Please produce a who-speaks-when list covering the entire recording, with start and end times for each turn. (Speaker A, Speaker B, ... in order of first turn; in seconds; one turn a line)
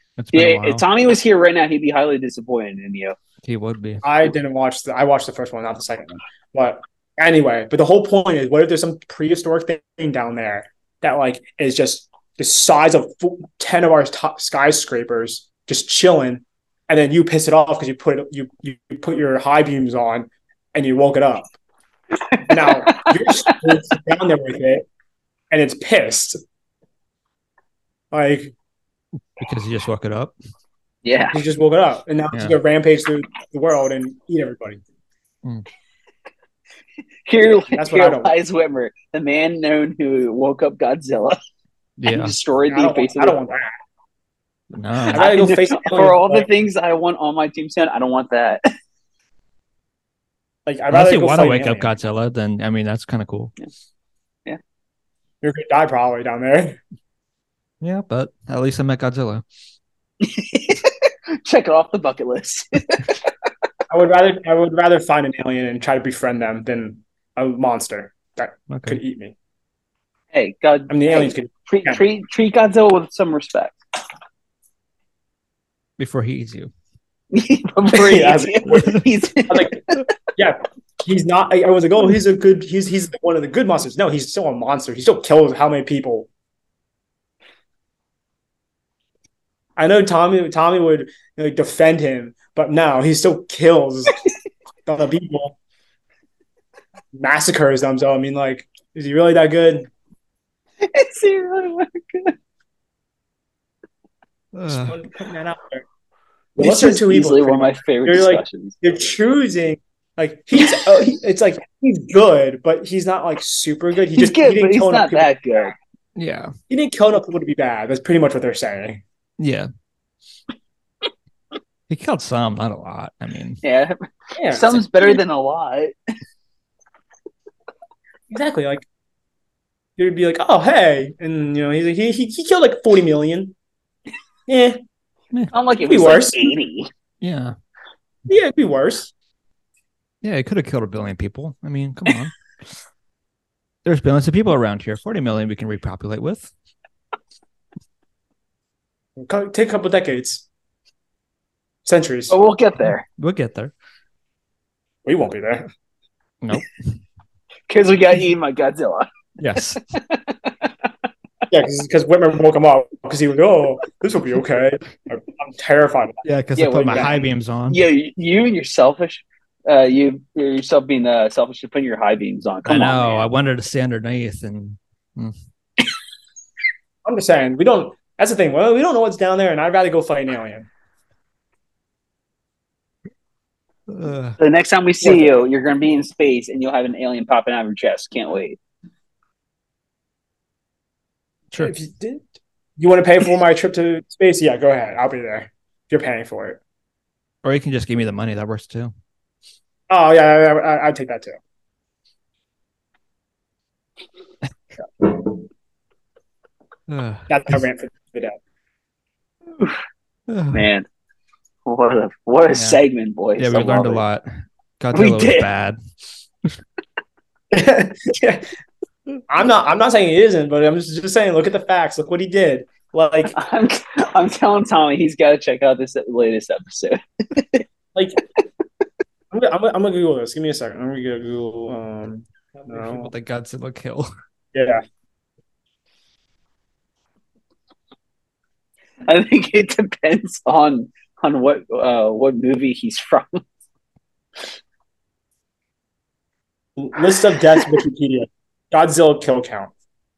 Speaker A: 0.2-0.8
Speaker B: 0.3-3.1
Speaker A: 3.4-4.0
Speaker C: 4.0-21.5
Speaker B: 22.3-23.6
Speaker C: 22.5-24.9
Speaker C: 25.5-26.4
Speaker C: 28.1-28.5
Speaker A: 29.4-30.3
Speaker B: 31.0-31.4
Speaker C: 31.3-34.8
Speaker B: 37.3-41.4
Speaker C: 37.4-38.4
Speaker A: 42.0-42.3
Speaker B: 42.1-43.4
Speaker C: 42.7-43.8
Speaker A: 44.7-45.2
Speaker C: 45.1-46.5
Speaker B: 45.1-48.6
Speaker C: 50.6-51.9
Speaker A: 50.9-53.5
Speaker C: 55.4-56.8
Speaker A: 57.8-59.4
Speaker B: 60.2-63.3
Speaker C: 63.9-69.3
Speaker A: 68.7-69.0
Speaker B: 70.3-73.8
Speaker C: 70.9-72.0
Speaker A: 76.0-76.7
Speaker B: 77.3-80.0
Speaker C: 77.9-86.3
Speaker C: 89.8-94.2
Speaker C: 94.9-95.6
Speaker C: 97.1-99.9
Speaker B: 100.8-102.3
Speaker A: 104.5-105.0
Speaker C: 104.7-105.8
Speaker B: 106.6-108.8
Speaker C: 106.6-115.7
Speaker B: 110.6-111.0
Speaker B: 114.1-115.8
Speaker A: 116.2-116.5
Speaker C: 116.7-119.0
Speaker A: 119.4-119.7
Speaker A: 121.9-123.6
Speaker B: 123.6-125.9
Speaker C: 124.4-125.0
Speaker C: 128.3-128.8
Speaker C: 130.0-133.5
Speaker C: 134.5-134.8
Speaker B: 135.5-136.9
Speaker C: 135.8-136.6
Speaker A: 137.2-137.6
Speaker C: 138.3-139.1
Speaker A: 140.2-142.3
Speaker A: 143.8-146.5
Speaker C: 149.2-150.4
Speaker C: 151.8-152.4
Speaker B: 152.3-153.0
Speaker A: 152.8-153.7
Speaker C: 155.1-155.7
Speaker A: 156.4-156.8
Speaker B: 157.7-160.9
Speaker A: 159.4-159.8
Speaker C: 161.5-166.2
Speaker A: 166.2-167.8
Speaker B: 166.6-173.3
Speaker C: 166.9-167.1
Speaker A: 172.6-175.3
Speaker C: 177.1-180.7
Speaker A: 183.9-184.4
Speaker B: 184.4-188.6
Speaker C: 185.0-185.4
Speaker C: 191.6-192.2
Speaker C: 192.8-196.6
Speaker A: 197.4-198.9
Speaker C: 199.9-201.4
Speaker A: 206.9-207.6
Speaker C: 207.3-208.4
Speaker A: 210.3-210.7
Speaker B: 210.5-210.9
Speaker B: 211.7-214.0
Speaker A: 212.5-212.8
Speaker A: 213.4-214.3
Speaker A: 214.8-215.8
Speaker B: 214.9-215.5
Speaker C: 217.5-218.4
Speaker C: 219.3-223.4
Speaker B: 223.3-227.6
Speaker C: 227.9-228.2
Speaker C: 229.3-233.1
Speaker A: 232.7-234.1
Speaker C: 234.5-234.8
Speaker B: 239.1-243.4
Speaker C: 246.8-249.7
Speaker B: 247.6-247.8